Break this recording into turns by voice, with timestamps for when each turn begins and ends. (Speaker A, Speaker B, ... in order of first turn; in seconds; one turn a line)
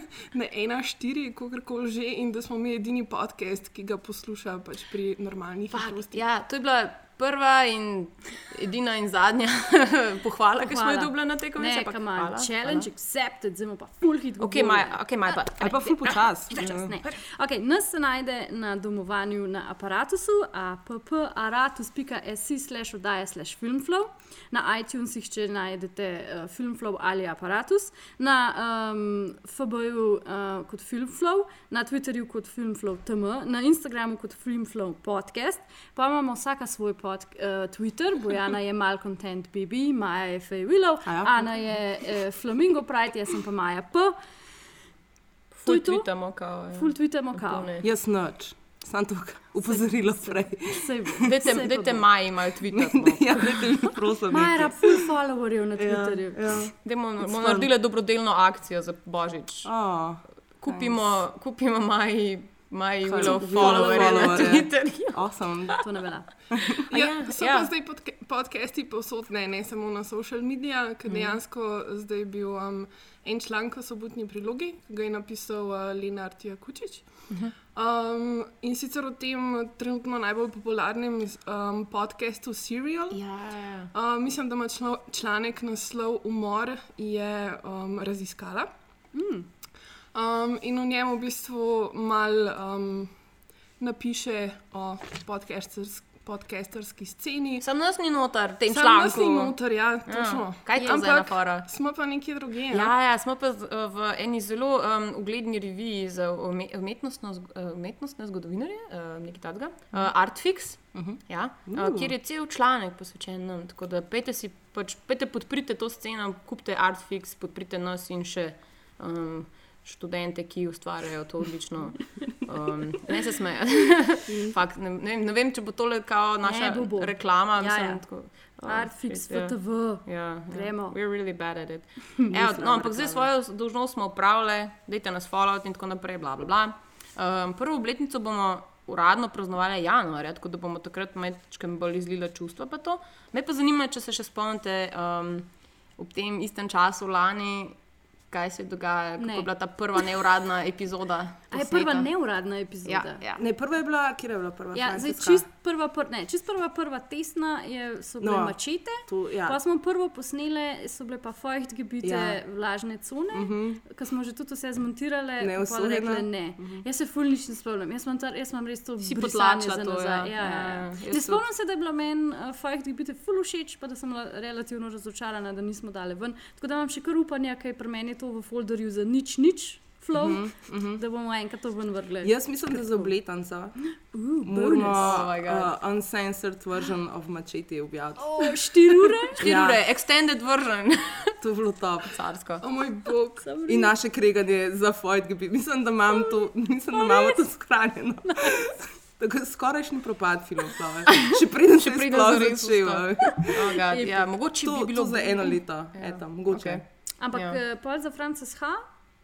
Speaker A: 0.3-6.2
Speaker B: 5.7-12.9
Speaker C: 10.6-15.1
Speaker B: 14.4-17.1
Speaker D: 15.6-16.9
Speaker C: 16.6-44.2
Speaker D: 41.0-41.8
Speaker B: 45.5-47.9
Speaker C: 45.6-46.1
Speaker C: 46.7-47.7
Speaker D: 47.8-51.2
Speaker C: 49.6-52.0
Speaker B: 51.2-53.8
Speaker D: 52.7-55.0
Speaker C: 54.3-56.5
Speaker D: 55.8-57.7
Speaker B: 56.8-59.7
Speaker D: 59.6-60.2
Speaker B: 60.6-65.7
Speaker D: 63.0-65.8
Speaker C: 63.2-64.5
Speaker C: 65.8-66.3
Speaker B: 66.9-67.7
Speaker A: 66.9-83.2
Speaker B: 71.1-71.4
Speaker B: 83.1-83.9
Speaker A: 83.9-88.7
Speaker C: 89.1-89.5
Speaker A: 90.1-93.2
Speaker A: 93.8-97.6
Speaker B: 97.6-101.7
Speaker A: 98.7-102.9
Speaker B: 102.7-147.8
Speaker D: 110.9-112.1
Speaker D: 124.3-124.6
Speaker C: 126.4-128.0
Speaker C: 128.6-131.0
Speaker C: 132.3-133.2
Speaker B: 148.3-152.1
Speaker C: 149.2-149.5
Speaker C: 151.5-153.2
Speaker B: 152.8-153.4
Speaker D: 153.4-155.5
Speaker C: 154.7-183.1
Speaker D: 158.2-159.6
Speaker D: 162.0-162.4
Speaker D: 163.3-163.8
Speaker D: 165.4-166.8
Speaker B: 169.0-171.4
Speaker D: 180.1-181.0
Speaker D: 182.2-183.8
Speaker C: 184.0-185.1
Speaker D: 184.4-188.6
Speaker B: 184.9-185.7
Speaker C: 188.2-189.4
Speaker D: 189.4-189.8
Speaker B: 189.4-191.3
Speaker D: 191.4-192.1
Speaker B: 192.1-192.6
Speaker A: 192.6-193.5
Speaker C: 193.4-193.9
Speaker D: 193.7-203.6
Speaker C: 196.9-197.4
Speaker B: 201.8-207.6
Speaker C: 203.9-204.3
Speaker D: 204.6-206.8
Speaker C: 207.2-208.8